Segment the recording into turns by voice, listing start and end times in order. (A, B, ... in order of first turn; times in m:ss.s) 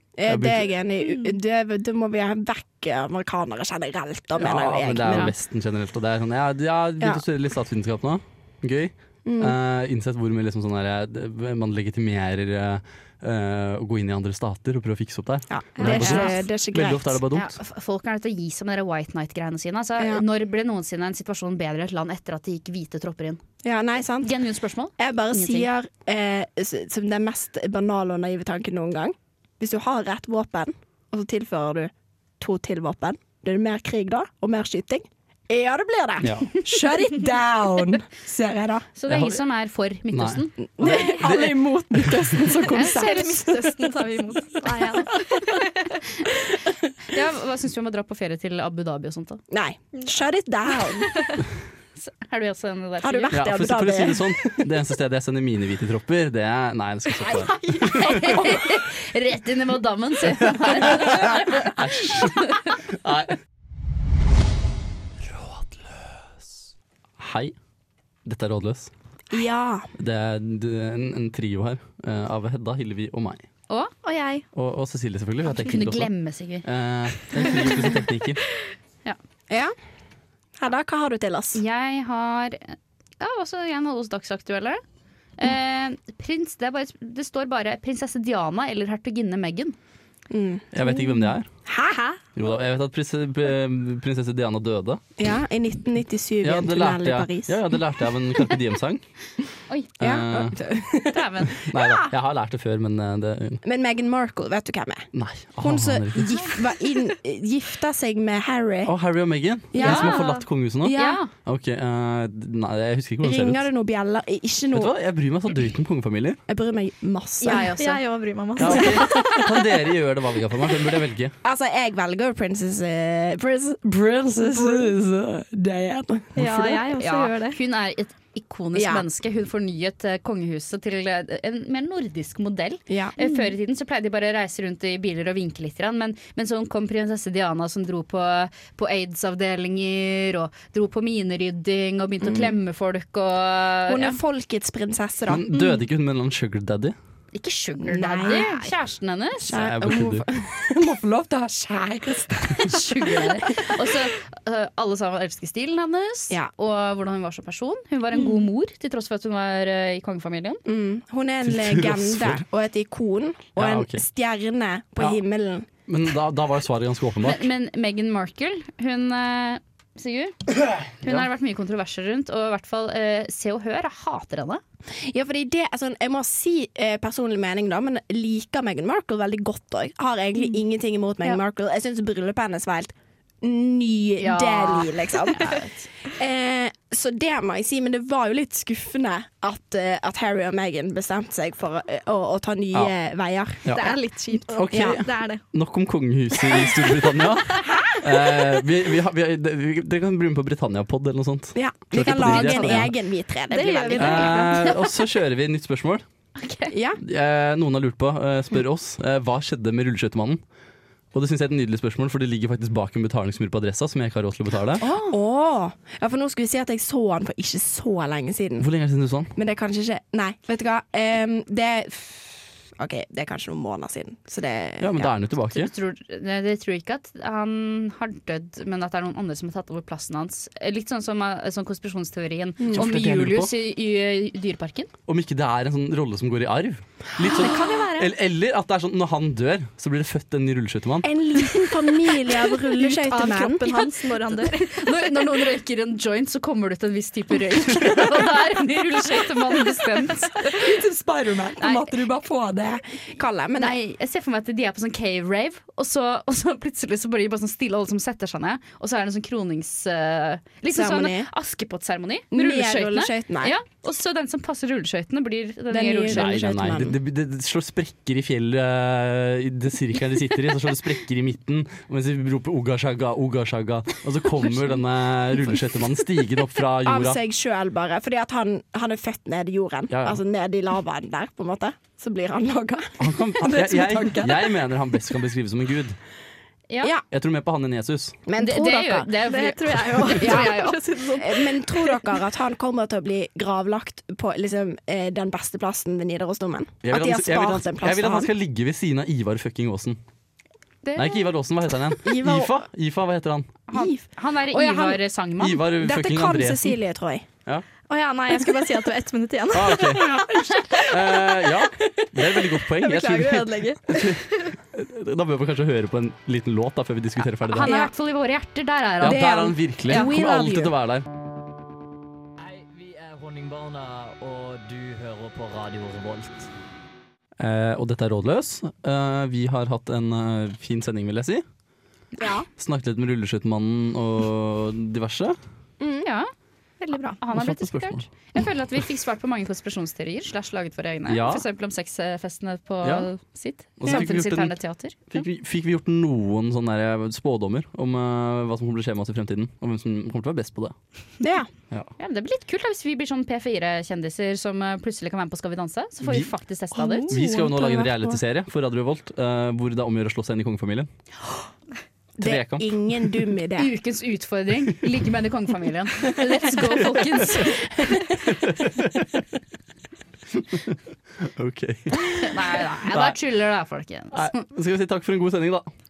0:00.2-0:05.3 A
0:00.3-0:00.7 B
0:04.4-0:17.5 B
0:09.3-0:09.6 A
0:15.5-0:17.2 A
0:15.8-0:16.2 C
0:16.0-0:16.4 D
0:17.3-0:23.4 D
0:20.0-0:20.2 A
0:23.6-0:24.3 A
0:24.2-0:25.7 D
0:25.0-0:38.9 A
0:36.2-0:36.6 B
0:39.0-0:41.1 D
0:39.1-0:39.4 B
0:40.1-0:42.4 B
0:40.8-0:43.7 A
0:42.7-0:46.0 C
0:42.7-0:43.8 D
0:47.0-0:49.4 D
0:49.5-0:51.3 A
0:52.0-0:53.4 D
0:53.0-0:54.6 A
0:53.3-0:58.6 B
0:57.8-1:02.7 D
1:00.4-1:03.4 B
1:05.3-1:05.8 B
1:07.2-1:07.5 B
1:08.3-1:08.9 B
1:09.3-1:09.9 A
1:10.0-1:13.4 B
1:14.0-1:14.4 C
1:14.5-1:16.1 B
1:15.4-1:16.6 D
1:16.6-1:18.4 B
1:17.4-1:17.9 D
1:19.5-1:19.8 A
1:20.6-1:21.6 A
1:21.6-1:24.8 D
1:25.4-1:29.8 D
1:30.3-1:30.7 A
1:30.7-1:31.5 B
1:31.7-1:32.2 A
1:32.4-1:35.0 B
1:35.2-1:37.6 A
1:36.4-1:39.0 B
1:40.0-1:40.6 B
1:40.0-1:42.1 A
1:41.1-1:41.7 D
1:41.5-1:43.6 B
1:43.6-1:45.1 A
1:45.1-1:46.3 B
1:45.6-1:48.9 A
1:46.3-1:46.6 D
1:48.9-1:53.6 B
1:49.7-1:51.2 A
1:49.8-1:50.1 D
1:49.8-1:50.4 C
1:50.9-1:51.3 D
1:53.2-1:54.9 A
1:54.7-1:56.4 B
1:56.5-1:57.7 A
1:57.4-1:58.0 D
1:57.8-1:59.5 C
1:58.6-2:01.3 B
1:58.7-1:59.4 A
2:01.4-2:06.9 A
2:06.4-2:07.6 C
2:07.0-2:24.2 D
2:08.8-2:09.1 A
2:12.9-2:13.2 A
2:13.2-2:13.4 C
2:22.2-2:22.5 A
2:23.9-2:25.5 A
2:25.3-2:27.0 B
2:27.3-2:29.6 D
2:27.8-2:28.7 A
2:29.4-2:33.8 A
2:29.5-2:30.2 B
2:32.6-2:40.6 D
2:40.7-2:45.7 A
2:41.4-2:42.4 B
2:43.6-2:44.0 B
2:45.9-2:47.5 B
2:47.2-2:50.4 D
2:51.0-2:51.3 B
2:51.0-2:54.6 D
2:54.9-3:13.7 A
3:04.2-3:05.9 D
3:13.6-3:14.0 B
3:13.7-3:15.4 C
3:14.5-3:22.9 B
3:14.7-3:15.0 A
3:17.6-3:18.3 A
3:21.6-3:24.6 A
3:22.3-3:22.8 C
3:23.5-3:24.7 C
3:24.0-3:26.0 B
3:26.4-3:26.7 D
3:26.7-3:27.0 A
3:27.0-3:30.4 B
3:31.1-3:34.8 B
3:34.8-3:38.7 A
3:34.8-3:35.2 D
3:38.6-3:39.3 B
3:39.4-3:45.1 A
3:44.8-3:45.7 B
3:45.5-3:54.9 D
3:52.6-3:52.9 A
3:52.7-3:53.5 B
3:55.1-4:01.1 B
3:57.2-3:58.1 C
3:57.2-3:57.6 A
4:01.0-4:03.9 A
4:01.5-4:05.5 C
4:04.5-4:10.6 D
4:10.5-4:13.8 A
4:11.6-4:11.9 D
4:13.6-4:26.5 D
4:20.7-4:21.3 A
4:22.3-4:23.6 A
4:25.7-4:27.0 A
4:26.1-4:37.2 B
4:36.8-4:43.8 A
4:39.9-4:40.2 B
4:43.0-4:46.0 B
4:43.5-4:44.4 C
4:47.1-4:48.2 B
4:48.3-4:49.1 A
4:48.4-4:50.8 D
4:49.2-4:52.1 C
4:50.2-4:58.3 A
4:56.8-5:00.0 B
5:00.8-5:01.3 D
5:01.0-5:03.5 B
5:02.0-5:02.6 A
5:03.7-5:05.6 D
5:03.7-5:05.0 A
5:05.4-5:06.8 B
5:05.8-5:07.3 A
5:07.9-5:11.2 C
5:09.5-5:17.7 B
5:12.7-5:14.5 C
5:17.5-5:20.1 D
5:17.6-5:17.9 A
5:19.0-5:21.1 B
5:19.0-5:20.7 A
5:22.4-5:26.5 E
5:27.4-5:31.4 B
5:32.2-5:32.5 A
5:32.6-5:35.4 B
5:35.8-5:36.1 A
5:36.0-5:36.3 D
5:36.8-5:37.2 C
5:37.2-5:45.2 D
5:37.3-5:38.0 B
5:41.1-5:41.4 B
5:43.8-5:44.6 B
5:45.1-5:50.8 B
5:51.2-5:51.5 A
5:52.0-5:57.1 D
5:56.0-5:56.3 B
5:56.8-5:57.6 A
5:57.1-6:00.9 B
5:57.1-5:57.9 C
6:02.2-6:03.7 A
6:02.2-6:02.8 B
6:03.6-6:08.2 D
6:08.1-6:09.2 B
6:10.3-6:13.2 B
6:12.2-6:14.4 D
6:14.1-6:15.7 B